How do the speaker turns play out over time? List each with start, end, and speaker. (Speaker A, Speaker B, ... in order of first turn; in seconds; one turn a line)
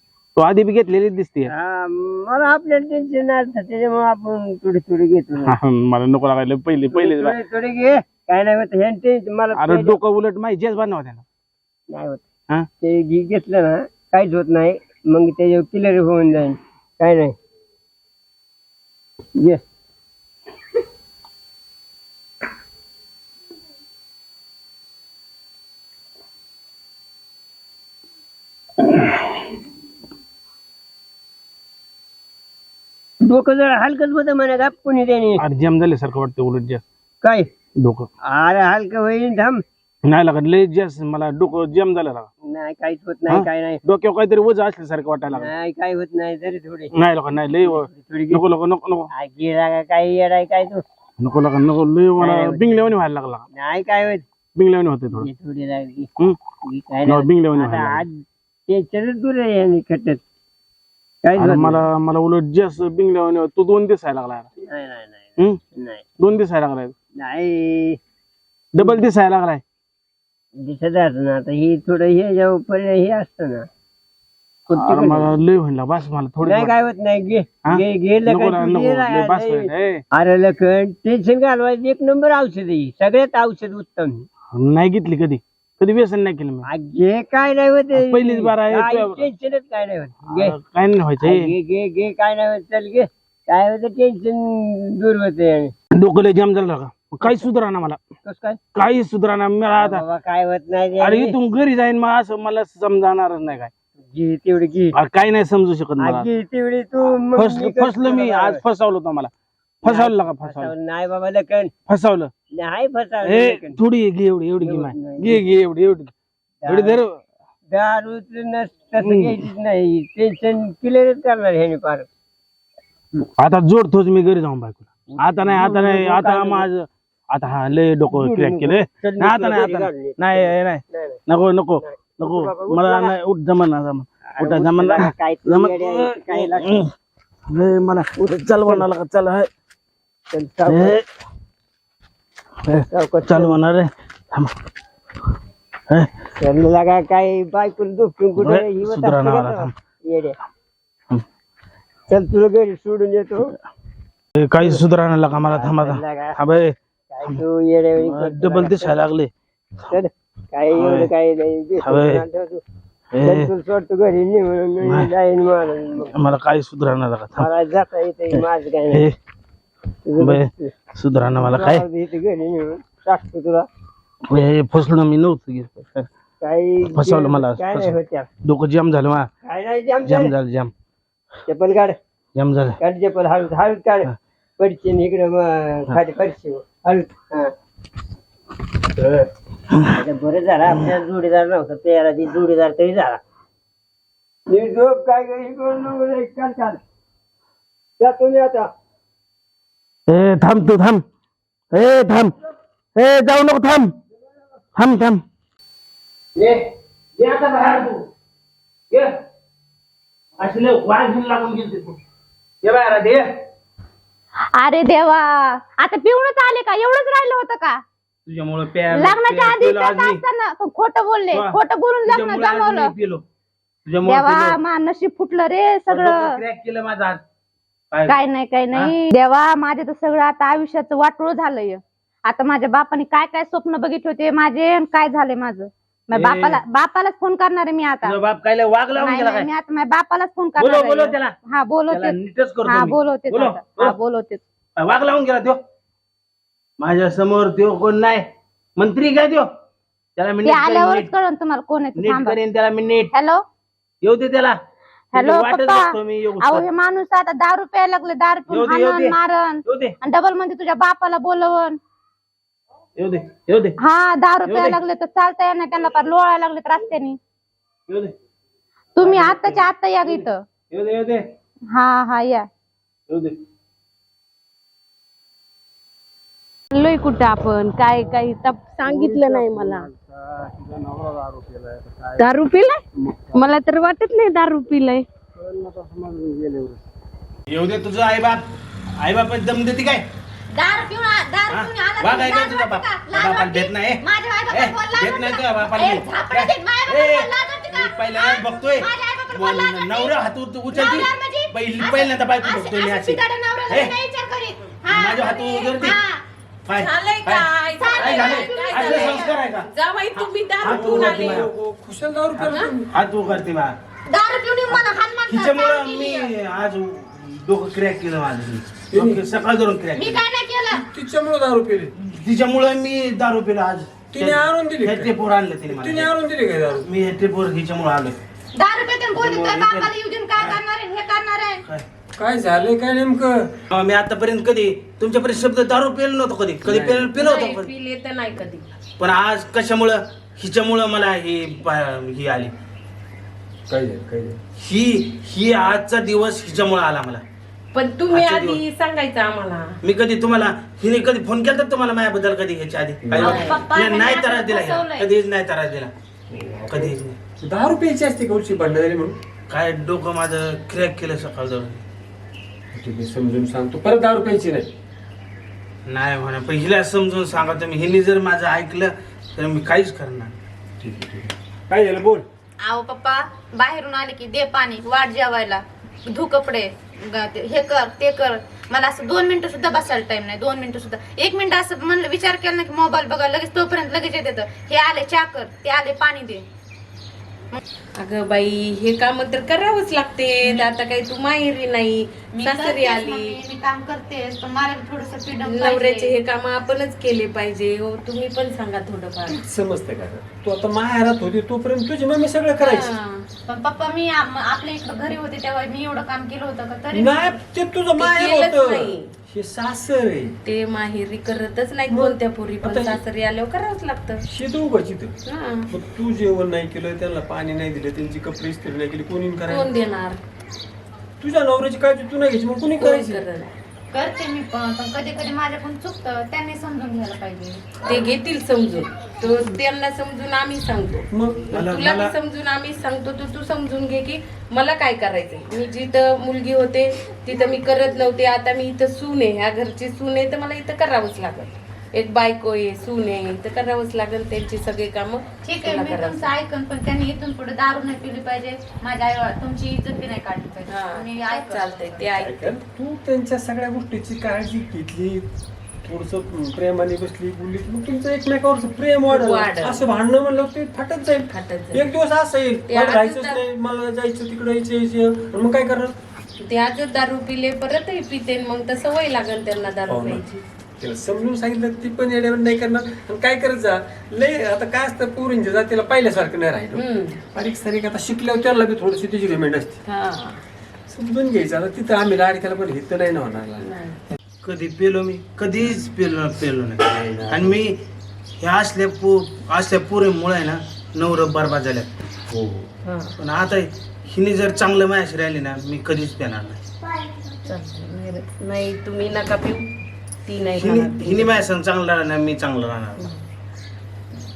Speaker A: 0.3-1.5
Speaker B: 1.5-5.5
Speaker A: 5.4-7.3
Speaker B: 6.9-10.0
Speaker A: 9.5-11.2
Speaker B: 11.9-12.2
Speaker B: 12.8-17.3
Speaker B: 33.2-35.4
Speaker A: 35.4-36.8
Speaker A: 37.8-38.1
Speaker B: 38.3-39.6
Speaker A: 40.0-42.3
Speaker B: 42.5-43.8
Speaker A: 43.3-45.5
Speaker B: 45.3-46.9
Speaker A: 46.9-49.1
Speaker B: 47.6-48.4
Speaker B: 49.1-50.8
Speaker A: 51.2-53.5
Speaker B: 52.2-52.9
Speaker B: 53.5-54.2
Speaker A: 54.5-55.3
Speaker B: 55.1-56.1
Speaker B: 56.6-60.2
Speaker A: 57.0-58.0
Speaker B: 61.2-61.8
Speaker A: 61.4-64.5
Speaker B: 64.6-66.0
Speaker A: 66.2-66.9
Speaker B: 67.2-68.0
Speaker A: 68.7-69.6
Speaker B: 70.6-73.7
Speaker B: 74.7-75.3
Speaker A: 74.8-76.7
Speaker B: 76.4-84.2
Speaker A: 77.6-80.0
Speaker A: 84.5-86.7
Speaker B: 86.7-90.5
Speaker A: 87.9-89.2
Speaker A: 90.3-91.5
Speaker B: 91.2-95.7
Speaker A: 95.9-98.0
Speaker B: 98.2-98.6
Speaker A: 98.7-100.0
Speaker B: 99.7-101.3
Speaker A: 101.0-103.7
Speaker B: 104.1-105.0
Speaker A: 104.9-106.3
Speaker B: 106.0-108.6
Speaker A: 107.3-109.3
Speaker A: 109.8-110.7
Speaker B: 109.8-111.7
Speaker A: 111.9-112.3
Speaker B: 112.5-113.8
Speaker A: 113.2-116.1
Speaker B: 114.6-115.4
Speaker B: 116.6-117.0
Speaker A: 116.7-117.2
Speaker B: 117.7-122.1
Speaker A: 119.0-119.4
Speaker A: 123.4-136.9
Speaker B: 125.1-126.7
Speaker B: 128.1-131.2
Speaker B: 131.8-133.1
Speaker B: 134.3-136.8
Speaker A: 137.5-139.5
Speaker B: 138.2-138.9
Speaker B: 140.3-141.0
Speaker A: 140.7-141.0
Speaker A: 142.7-144.5
Speaker B: 142.9-143.6
Speaker B: 146.4-150.3
Speaker A: 148.3-149.7
Speaker B: 152.1-153.5
Speaker A: 154.3-156.7
Speaker B: 155.5-156.4
Speaker B: 157.1-159.0
Speaker A: 158.0-159.3
Speaker B: 159.9-162.6
Speaker A: 160.7-161.1
Speaker A: 161.8-162.2
Speaker A: 163.1-163.5
Speaker B: 163.2-166.1
Speaker A: 164.8-165.1
Speaker A: 166.1-167.5
Speaker B: 167.4-169.1
Speaker A: 168.3-169.1
Speaker B: 170.1-170.7
Speaker A: 170.2-171.8
Speaker B: 171.3-173.7
Speaker A: 174.3-176.1
Speaker B: 176.4-178.3
Speaker A: 176.9-179.3
Speaker B: 179.4-180.3
Speaker A: 180.0-180.7
Speaker B: 181.4-182.0
Speaker A: 182.3-182.8
Speaker B: 182.8-187.5
Speaker B: 189.9-193.2
Speaker B: 194.5-196.8
Speaker B: 198.0-198.7
Speaker A: 200.1-201.0
Speaker A: 201.7-202.3
Speaker A: 202.9-203.9
Speaker A: 204.8-205.2
Speaker A: 207.2-208.0
Speaker A: 210.4-212.0
Speaker A: 212.6-213.2
Speaker C: 214.6-217.8
Speaker A: 218.2-220.2
Speaker C: 218.9-222.9
Speaker A: 221.3-223.2
Speaker A: 223.8-224.6
Speaker C: 224.0-226.3
Speaker A: 225.9-227.2
Speaker A: 227.9-228.2
Speaker C: 228.1-238.1
Speaker A: 236.1-236.6
Speaker A: 238.0-239.5
Speaker C: 238.9-244.4
Speaker A: 240.6-241.3
Speaker A: 241.9-244.0
Speaker A: 244.8-245.6
Speaker A: 246.8-248.2
Speaker A: 248.8-249.5
Speaker A: 250.2-251.1
Speaker C: 250.4-252.4
Speaker A: 251.9-253.1
Speaker C: 253.1-253.4
Speaker A: 254.0-254.6
Speaker C: 255.1-261.8
Speaker A: 255.1-256.7
Speaker A: 258.5-259.9
Speaker A: 263.0-263.8
Speaker C: 263.8-267.2
Speaker A: 264.4-264.8
Speaker C: 268.9-270.4
Speaker A: 269.0-271.2
Speaker C: 271.7-272.4
Speaker A: 273.1-273.4
Speaker D: 276.7-279.9
Speaker A: 280.6-281.9
Speaker D: 282.2-282.8
Speaker D: 283.3-285.0
Speaker A: 285.8-286.2
Speaker B: 286.3-286.7
Speaker A: 287.5-288.4
Speaker A: 289.0-290.1
Speaker C: 290.5-306.2
Speaker A: 291.5-303.9
Speaker A: 304.9-306.0
Speaker A: 306.6-311.5
Speaker D: 306.8-311.5
Speaker C: 307.8-309.4
Speaker E: 310.6-312.9
Speaker A: 312.9-313.8
Speaker C: 314.1-316.3
Speaker A: 314.7-320.2
Speaker E: 318.9-319.2
Speaker C: 319.9-320.8
Speaker E: 320.7-321.9
Speaker A: 322.0-326.1
Speaker E: 324.1-325.1
Speaker E: 325.7-326.8
Speaker A: 326.7-328.2
Speaker C: 328.5-331.6
Speaker A: 329.1-330.6
Speaker E: 332.2-333.5
Speaker A: 333.7-337.7
Speaker E: 336.6-337.1
Speaker D: 337.1-338.6
Speaker A: 339.0-342.5
Speaker E: 343.7-344.4
Speaker A: 344.5-347.2
Speaker D: 347.7-349.8
Speaker A: 348.1-348.6
Speaker A: 349.8-355.9
Speaker E: 353.0-353.6
Speaker F: 353.2-355.1
Speaker D: 353.2-353.6
Speaker E: 356.3-359.2
Speaker A: 356.7-357.2
Speaker A: 359.5-361.8
Speaker E: 362.7-364.7
Speaker A: 365.9-370.4
Speaker E: 370.8-372.2
Speaker F: 372.6-386.4
Speaker D: 388.0-393.4
Speaker F: 392.3-396.1
Speaker D: 395.4-399.4
Speaker E: 399.3-402.9
Speaker D: 402.6-403.2
Speaker F: 403.5-407.4
Speaker E: 406.9-410.4
Speaker D: 408.0-409.1
Speaker D: 410.4-414.2
Speaker E: 411.9-413.0
Speaker E: 414.2-419.7
Speaker D: 415.2-415.7
Speaker D: 419.5-420.2
Speaker E: 421.2-423.2
Speaker D: 422.8-423.5
Speaker F: 423.9-427.8
Speaker D: 427.8-446.3
Speaker E: 431.1-431.4
Speaker A: 431.5-432.1
Speaker F: 445.4-452.1
Speaker D: 450.7-452.6
Speaker E: 452.2-455.3
Speaker E: 455.8-465.9
Speaker D: 459.1-459.8
Speaker D: 461.3-461.9
Speaker D: 462.7-463.4
Speaker D: 466.4-470.4
Speaker E: 469.9-470.2
Speaker E: 470.8-479.8
Speaker D: 476.7-477.2
Speaker D: 479.8-480.4
Speaker E: 480.9-483.7
Speaker D: 483.6-484.0
Speaker A: 484.4-487.8
Speaker E: 486.9-487.6
Speaker A: 488.4-491.9
Speaker E: 492.3-492.7
Speaker D: 492.8-493.1
Speaker A: 493.2-496.6
Speaker D: 497.4-499.6
Speaker D: 500.2-501.5
Speaker A: 500.6-503.1